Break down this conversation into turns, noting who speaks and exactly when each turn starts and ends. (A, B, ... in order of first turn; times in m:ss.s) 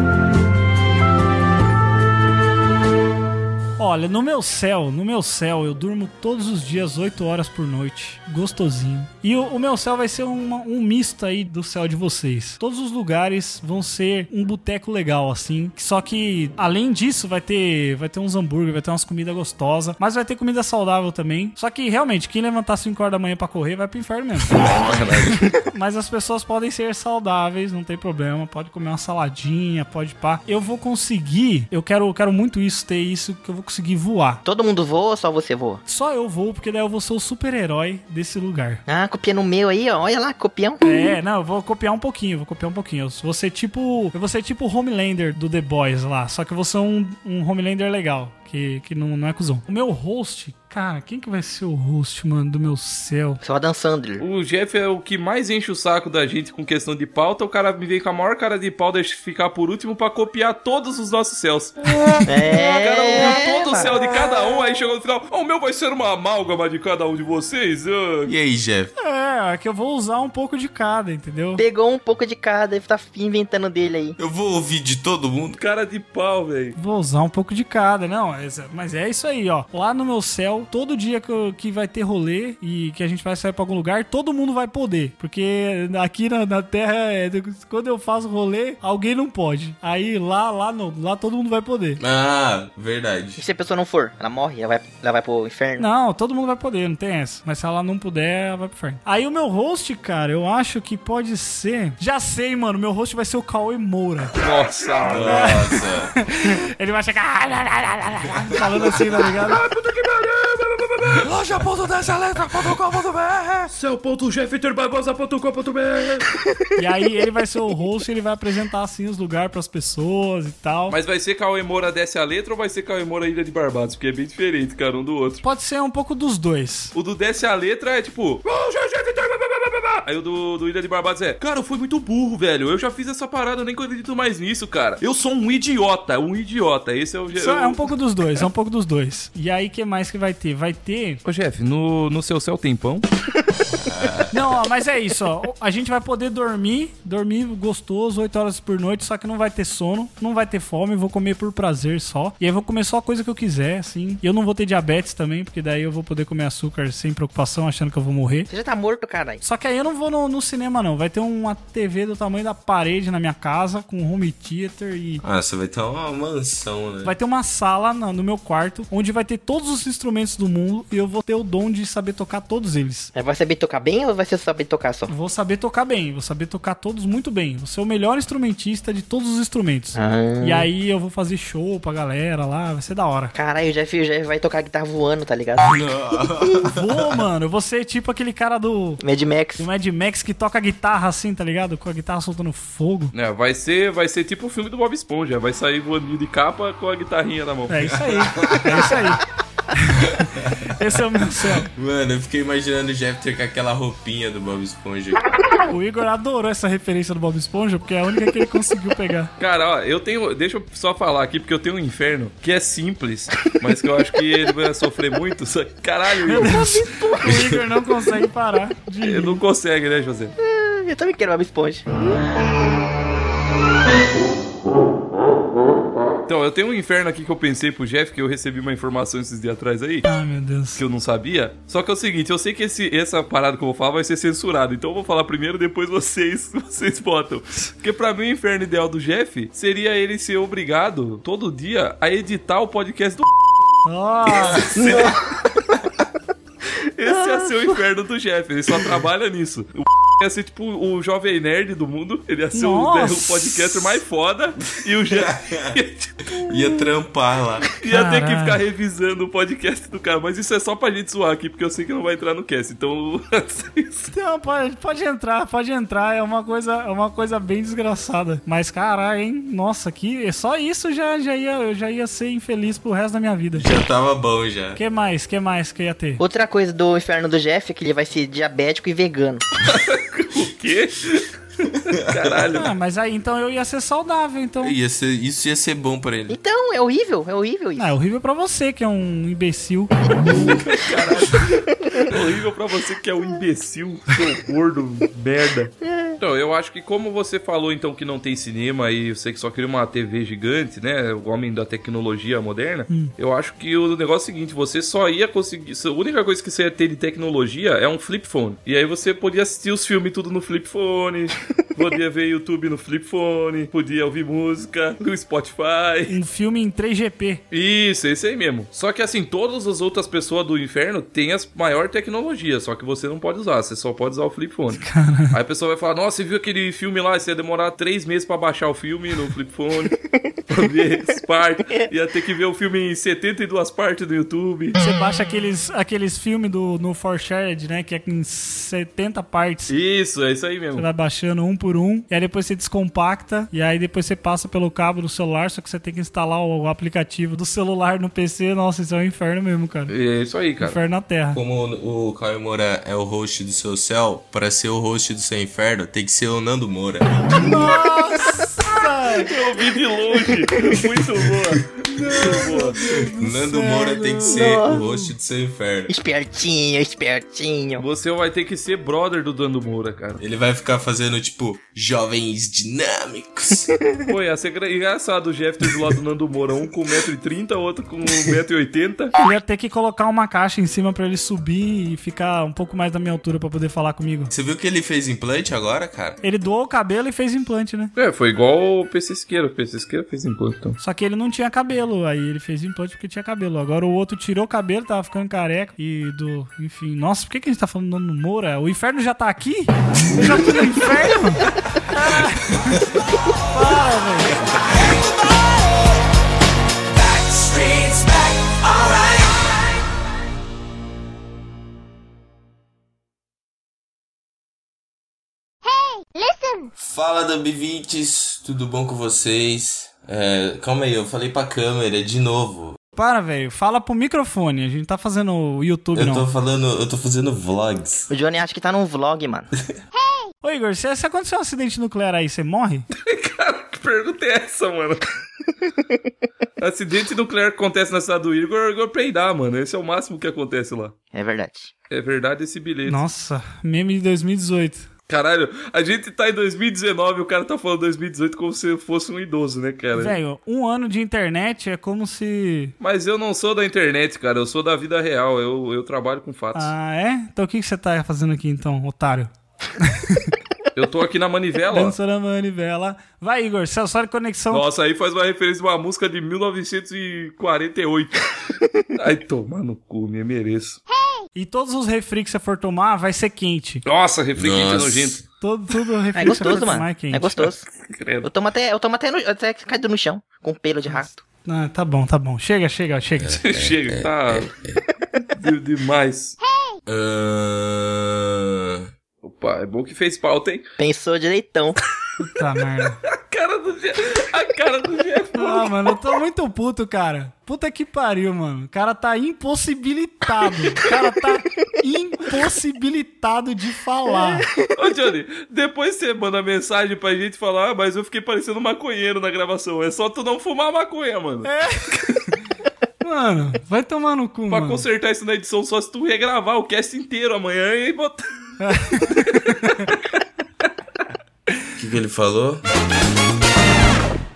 0:03.8-0:24.7 A
0:24.6-0:25.5 B
0:25.3-0:34.4 A
0:34.4-0:35.8 C
0:35.9-0:38.8 A
0:38.9-0:41.1 C
0:40.8-0:53.4 A
0:53.4-0:54.2 C
0:54.2-1:08.3 B
1:02.2-1:03.9 C
1:08.3-1:08.9 D
1:09.0-1:11.6 A
1:11.6-1:14.2 C
1:14.2-1:15.6 D
1:15.6-1:16.8 B
1:16.8-1:32.0 A
1:32.0-1:33.4 D
1:33.4-1:35.9 C
1:35.8-1:44.4 A
1:44.4-1:45.6 B
1:45.0-1:46.1 D
1:45.3-1:49.6 A
1:48.5-1:56.4 B
1:56.8-2:01.0 A
2:00.9-2:05.4 B
2:05.4-2:06.9 A
2:06.9-2:17.8 B
2:17.4-2:21.2 A
2:21.2-2:23.1 B
2:23.9-2:24.3 D
2:24.3-2:38.5 A
2:38.5-2:39.4 C
2:39.4-2:45.2 A
2:45.2-2:47.1 D
2:47.0-2:53.1 A
2:53.2-2:55.1 C
2:55.1-3:03.3 A
3:00.0-3:00.7 C
3:03.4-3:05.9 C
3:05.7-3:07.2 D
3:06.6-3:09.0 A
3:09.0-3:09.7 C
3:09.6-3:13.1 A
3:13.1-3:17.9 B
3:17.7-3:21.7 A
3:17.9-3:19.1 D
3:20.2-3:20.9 D
3:21.5-3:25.2 D
3:25.7-3:29.3 A
3:29.4-3:36.9 B
3:36.3-3:39.4 A
3:37.3-3:37.7 D
3:39.0-3:40.4 B
3:40.4-3:41.9 C
3:46.3-3:50.1 B
3:50.0-3:50.8 A
3:50.8-4:03.3 B
4:03.8-4:04.8 A
4:04.4-4:05.1 D
4:04.6-4:05.2 B
4:07.0-4:16.4 B
4:12.5-4:13.6 A
4:15.1-4:17.7 D
4:17.7-4:24.1 B
4:17.8-4:18.6 A
4:24.1-4:33.7 A
4:33.6-4:34.8 D
4:34.8-4:36.2 A
4:36.2-4:39.4 C
4:39.6-4:42.7 B
4:41.9-4:42.2 D
4:42.5-4:44.8 A
4:44.6-4:46.4 D
4:46.3-4:47.9 C
4:47.8-4:50.1 A
4:50.2-5:16.2 B
4:55.8-4:56.2 C
5:16.1-5:17.4 A
5:17.5-5:30.0 B
5:24.8-5:25.4 A
5:30.5-5:34.8 B
5:34.8-5:39.7 A
5:39.7-5:40.8 B
5:40.8-5:49.9 A
5:49.9-5:50.8 B
5:50.6-5:51.4 A
5:51.3-5:57.6 D
5:57.2-5:59.3 A
5:59.2-6:02.8 B
6:01.9-6:05.0 A
6:02.8-6:05.9 D
6:04.3-6:04.8 C
6:05.9-6:07.8 C
6:07.8-6:10.2 B
6:10.2-6:13.8 D
6:14.1-6:19.1 B
6:19.2-6:24.3 A
6:24.3-6:26.2 D
6:26.2-6:27.9 A
6:28.0-6:30.8 B
6:30.8-6:42.8 A
6:43.5-6:44.5 A
6:47.2-6:49.5 D
6:55.6-6:56.7 E
6:56.8-7:02.8 D
7:03.0-7:06.3 A
7:05.9-7:08.1 D
7:08.1-7:09.5 C
7:09.9-7:10.3 E
7:10.4-7:12.9 A
7:12.9-7:15.0 B
7:16.6-7:20.9 B
7:21.1-7:21.7 C
7:21.9-7:23.0 B
7:22.9-7:24.9 A
7:25.1-7:30.2 B
7:30.0-7:32.7 A
7:32.8-7:36.7 B
7:36.6-7:40.4 A
7:40.8-7:42.0 B
7:41.7-7:44.7 A
7:44.5-7:50.8 B
7:50.9-7:51.3 E
7:51.4-7:53.8 A
7:53.8-7:55.2 B
7:54.4-7:55.2 D
7:55.4-7:57.4 A
7:56.2-7:57.7 C
7:57.8-7:58.3 B
7:58.2-8:01.2 C
8:00.9-8:03.4 A
8:03.2-8:04.8 D
8:03.4-8:04.5 B
8:05.3-8:06.4 B
8:06.4-8:06.8 E
8:06.9-8:08.9 D
8:09.2-8:10.6 B
8:10.8-8:11.8 C
8:12.2-8:13.0 A
8:13.0-8:15.9 B
8:15.4-8:24.5 A
8:24.8-8:31.5 B
8:31.4-8:32.3 A
8:33.0-8:34.8 A
8:34.5-8:38.3 B
8:38.6-8:39.9 A
8:38.9-8:40.0 B
8:41.8-8:42.6 D